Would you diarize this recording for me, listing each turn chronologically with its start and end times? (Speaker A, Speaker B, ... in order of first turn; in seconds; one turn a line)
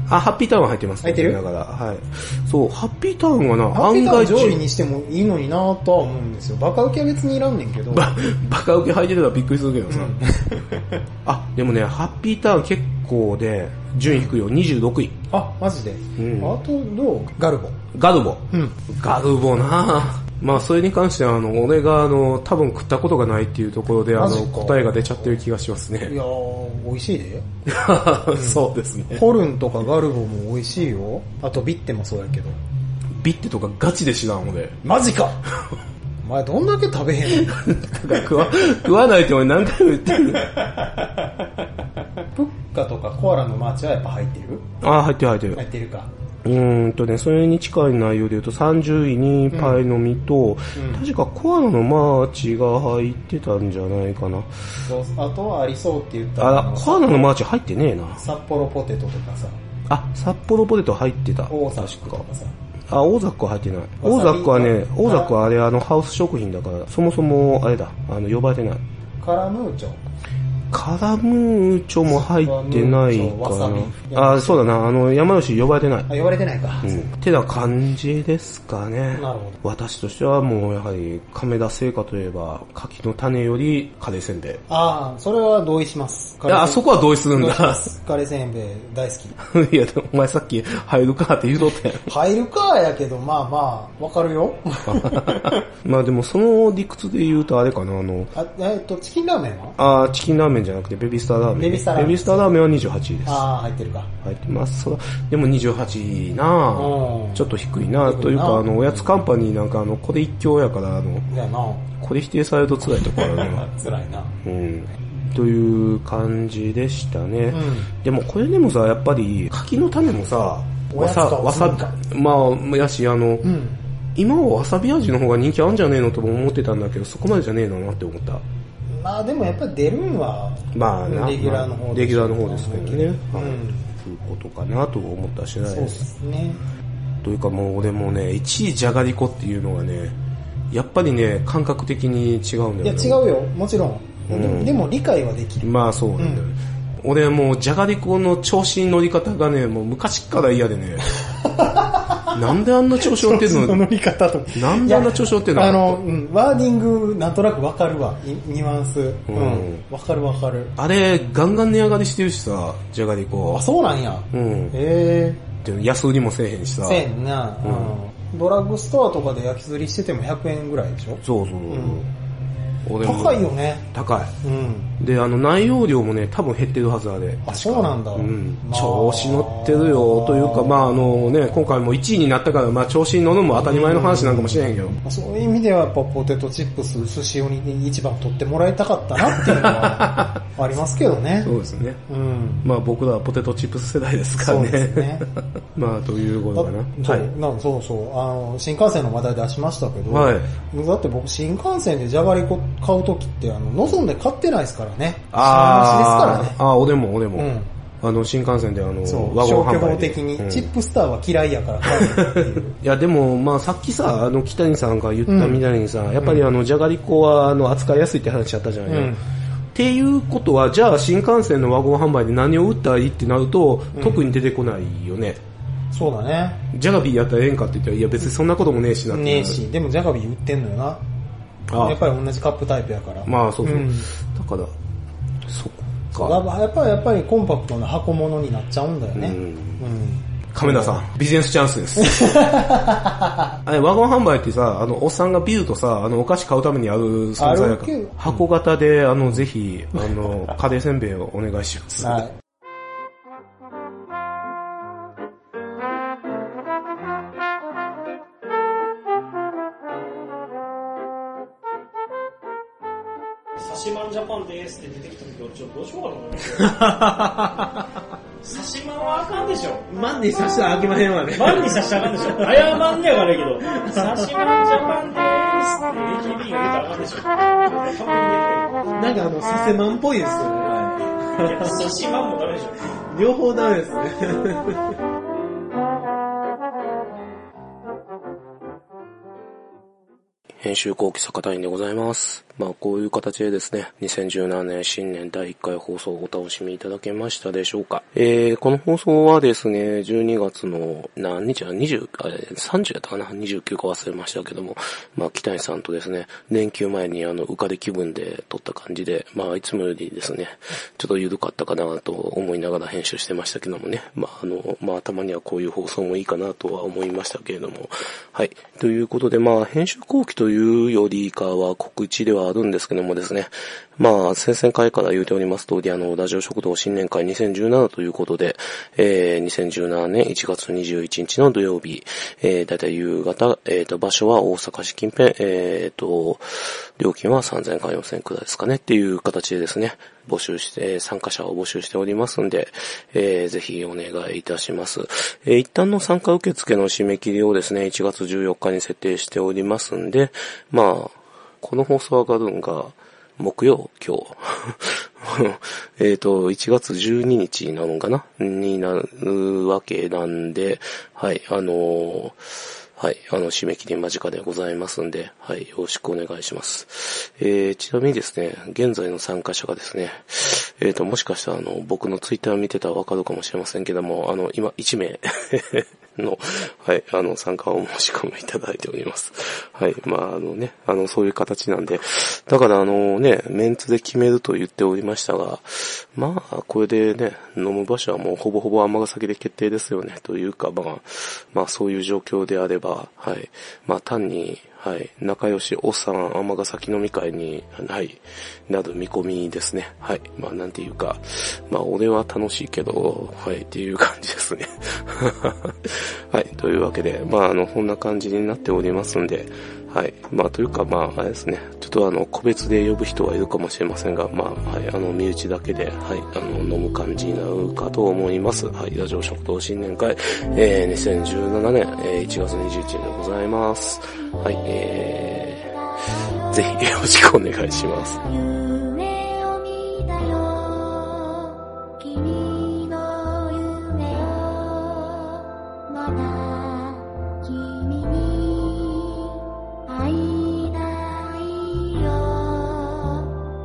Speaker A: 0.1-4.6
Speaker B: 1.0-1.4
Speaker B: 3.7-8.1
Speaker A: 7.9-10.2
Speaker B: 9.9-11.0
Speaker A: 11.2-15.2
Speaker B: 15.3-17.8
Speaker A: 16.2-16.6
Speaker A: 17.9-26.2
Speaker B: 18.5-18.8
Speaker B: 24.1-25.0
Speaker B: 26.1-27.5
Speaker A: 27.7-29.2
Speaker B: 28.3-32.6
Speaker A: 33.2-34.8
Speaker B: 34.8-35.4
Speaker B: 36.2-38.2
Speaker A: 37.3-40.8
Speaker B: 40.4-41.5
Speaker B: 42.2-44.6
Speaker A: 44.8-45.6
Speaker B: 45.6-46.1
Speaker A: 46.4-54.5
Speaker B: 49.5-49.8
Speaker B: 50.8-51.0
Speaker B: 54.9-57.3
Speaker A: 56.4-58.2
Speaker B: 58.2-59.6
Speaker A: 59.9-62.3
Speaker B: 61.5-62.5
Speaker A: 62.9-68.8
Speaker B: 64.0-65.3
Speaker B: 69.2-70.0
Speaker A: 70.7-76.1
Speaker B: 72.1-74.7
Speaker B: 76.1-77.1
Speaker A: 76.8-84.6
Speaker B: 79.1-79.6
Speaker B: 84.7-89.3
Speaker A: 86.5-87.9
Speaker A: 89.4-92.1
Speaker B: 92.1-95.6
Speaker A: 94.9-98.3
Speaker B: 98.3-99.8
Speaker A: 99.8-103.5
Speaker B: 101.5-102.6
Speaker B: 103.2-104.1
Speaker A: 104.2-111.3
Speaker B: 106.7-109.2
Speaker B: 111.3-111.9
Speaker A: 112.0-113.7
Speaker B: 112.9-114.4
Speaker A: 114.4-123.5
Speaker B: 117.5-117.9
Speaker B: 120.9-122.0
Speaker B: 123.4-123.8
Speaker A: 124.2-128.4
Speaker B: 128.9-133.9
Speaker A: 130.7-136.0
Speaker B: 135.7-136.6
Speaker A: 137.2-140.2
Speaker A: 140.7-143.2
Speaker B: 142.8-146.5
Speaker A: 144.3-144.8
Speaker A: 145.6-151.1
Speaker B: 151.2-152.4
Speaker A: 152.3-153.8
Speaker B: 153.0-160.8
Speaker A: 154.5-156.0
Speaker A: 159.3-159.8
Speaker A: 160.8-163.7
Speaker B: 163.5-165.5
Speaker A: 164.3-164.8
Speaker A: 165.6-167.1
Speaker B: 166.8-172.1
Speaker A: 167.6-168.0
Speaker A: 171.2-172.1
Speaker A: 172.8-174.3
Speaker B: 173.0-173.9
Speaker B: 174.4-174.9
Speaker A: 175.0-185.0
Speaker B: 177.4-181.4
Speaker B: 183.6-191.6
Speaker A: 189.2-190.4
Speaker A: 191.4-192.0
Speaker B: 192.1-192.7
Speaker A: 192.6-197.3
Speaker B: 194.4-195.3
Speaker B: 196.5-206.6
Speaker A: 200.1-200.5
Speaker A: 205.3-207.5
Speaker B: 207.3-207.7
Speaker A: 208.0-210.7
Speaker B: 209.1-212.8
Speaker A: 211.9-219.2
Speaker B: 215.3-215.6
Speaker B: 216.2-216.4
Speaker B: 218.9-219.2
Speaker A: 219.7-225.4
Speaker B: 224.0-224.3
Speaker B: 225.9-226.6
Speaker A: 226.7-229.6
Speaker B: 229.1-231.0
Speaker A: 231.7-232.0
Speaker B: 231.8-234.1
Speaker A: 233.3-234.7
Speaker A: 235.5-236.4
Speaker B: 236.2-241.0
Speaker A: 239.2-239.8
Speaker A: 240.5-242.4
Speaker B: 242.0-243.6
Speaker A: 243.6-252.3
Speaker B: 247.4-248.4
Speaker B: 252.0-252.3
Speaker C: 263.6-267.1
Speaker A: 266.7-267.8
Speaker C: 268.4-269.9
Speaker A: 269.9-272.8
Speaker C: 271.3-278.9
Speaker A: 273.6-274.2
Speaker A: 279.0-281.8
Speaker C: 281.4-282.8
Speaker A: 283.1-284.9
Speaker A: 290.6-362.4
Speaker A: 363.0-425.7
Speaker D: 426.1-426.6
Speaker A: 426.5-428.2
Speaker D: 428.2-443.3